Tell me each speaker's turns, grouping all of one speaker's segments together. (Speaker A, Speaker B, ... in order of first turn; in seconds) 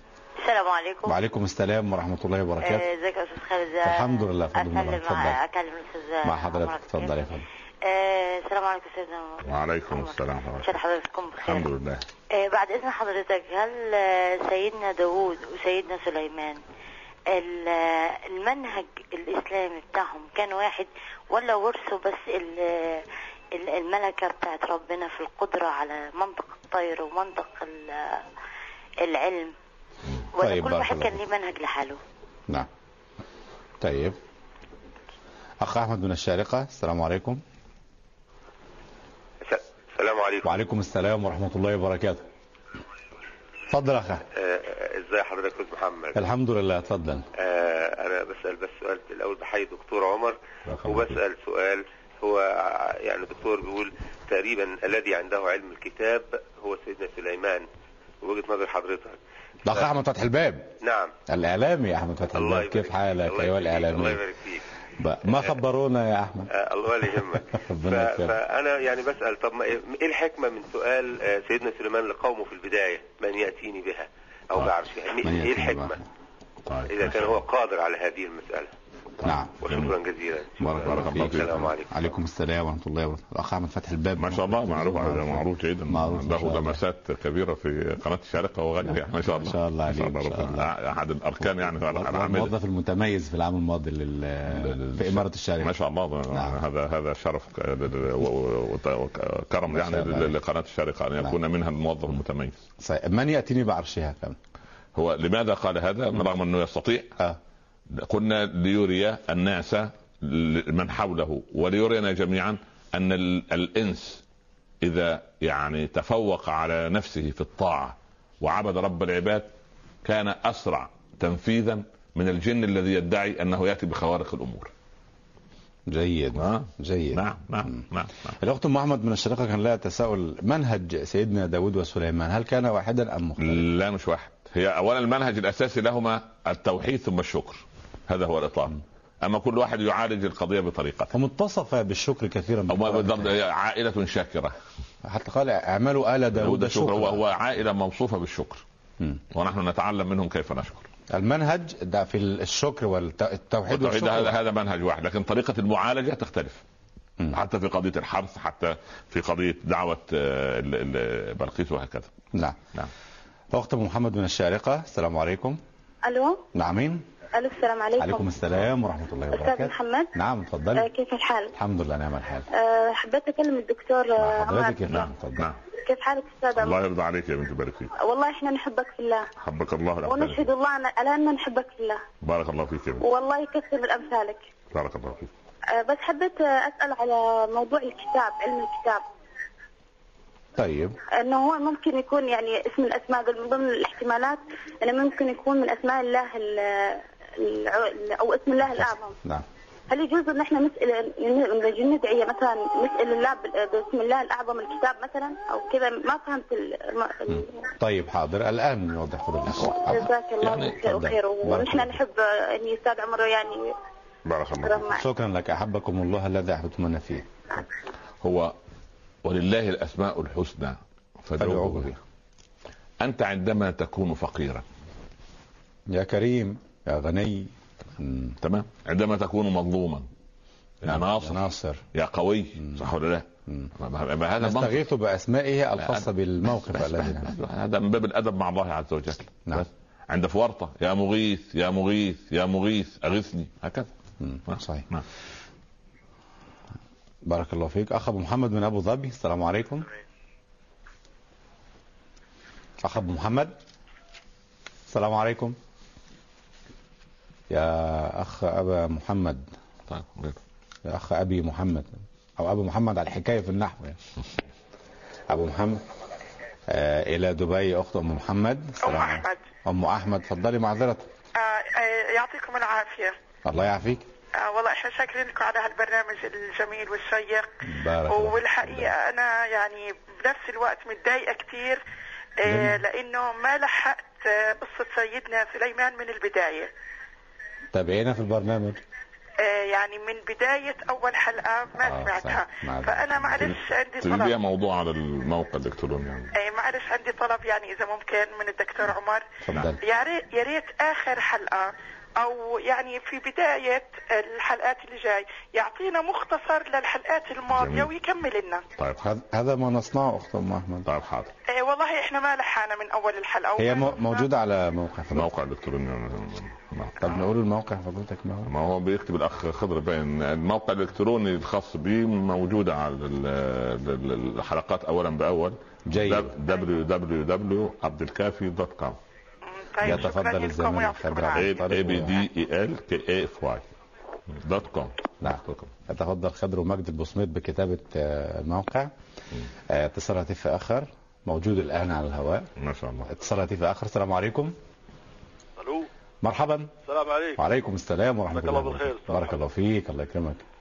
Speaker A: 0.4-1.1, 2.6-7.2, 7.8-11.7, 12.3-16.6, 17.3-28.2, 29.0-29.5, 30.4-32.0
Speaker B: 1.1-2.9, 3.8-5.4, 6.2-7.5, 30.4-31.2, 33.8-34.2, 35.6-37.4, 40.5-42.3, 43.7-44.2, 46.1-47.2, 59.7-60.7, 61.3-64.2, 65.0-66.5, 67.1-68.3, 75.2-76.0, 79.2-79.6, 80.6-86.8, 88.8-90.7, 91.4-95.8, 96.3-96.6, 99.7-100.3, 102.8-104.4, 125.9-127.9, 128.4-133.7, 141.1-143.3, 145.1-147.2, 151.1-154.4, 163.5-165.6, 166.5-167.0, 168.0-170.9, 171.6-172.5, 174.2-175.5, 190.6-191.0, 207.3-210.0, 210.8-212.0, 215.0-217.3, 221.4-222.0, 225.9-228.4, 230.9-231.8, 234.4-237.3, 244.2-244.9, 247.2-249.9, 252.8-253.6, 254.9-255.6, 257.5-259.5, 260.9-264.0, 265.3-265.8, 266.7-271.1, 273.4-274.0, 277.6-278.9, 282.4-282.8, 287.7-288.8, 291.8-293.6, 299.4-299.8, 309.0-310.9, 313.6-315.3, 317.0-318.5, 325.9-326.3, 329.8-332.2, 335.2-338.9, 339.7-342.5, 343.1-344.6, 346.2-346.7, 347.4-350.4
Speaker C: 9.4-10.7, 11.4-12.1, 50.7-51.0, 76.7-77.4, 79.2-80.0, 80.8-81.7, 84.2-92.5, 94.5-102.6, 105.0-107.1, 107.9-114.2, 114.8-119.5, 120.0-124.7, 126.3-128.2, 133.4-141.1, 142.7-144.6, 146.3-148.6, 149.3-150.9, 153.7-156.6, 157.3-162.1, 174.9-175.6, 176.6-177.9, 179.4-180.5, 182.2-183.1, 184.7-185.3, 209.5-210.8, 214.3-214.9, 218.2-218.6, 219.2-222.0, 223.0-224.6, 228.4-230.1, 230.8-231.4, 231.9-234.8, 235.8-243.9, 244.5-245.1, 259.9-260.4, 294.0-296.3, 307.5-307.9, 310.9-311.3, 315.1-317.2, 318.4-329.0, 331.4-333.7, 334.3-335.7, 342.6-343.1
Speaker D: 39.5-40.5, 44.3-46.2, 47.4-57.7, 58.2-59.2, 60.8-61.1, 62.3-64.6, 66.5-76.0, 76.9-78.7, 79.6-82.1
Speaker E: 166.1-166.4, 167.3-168.3, 169.3-170.1, 170.8-171.5, 172.5-174.8, 175.8-176.8, 178.0-179.3, 180.1-182.0, 183.0-184.4, 185.7-189.0, 191.2-199.2, 199.9-207.7, 209.9-213.7, 214.6-215.0
Speaker F: 268.8-269.4, 271.4-273.1, 274.4-277.5, 278.1-281.8, 282.4-286.7, 289.4-294.4, 296.4-299.2, 299.8-308.6, 311.5-314.3, 329.5-331.6
Speaker G: 345.6-345.9, 346.9-347.4, 348.3-349.4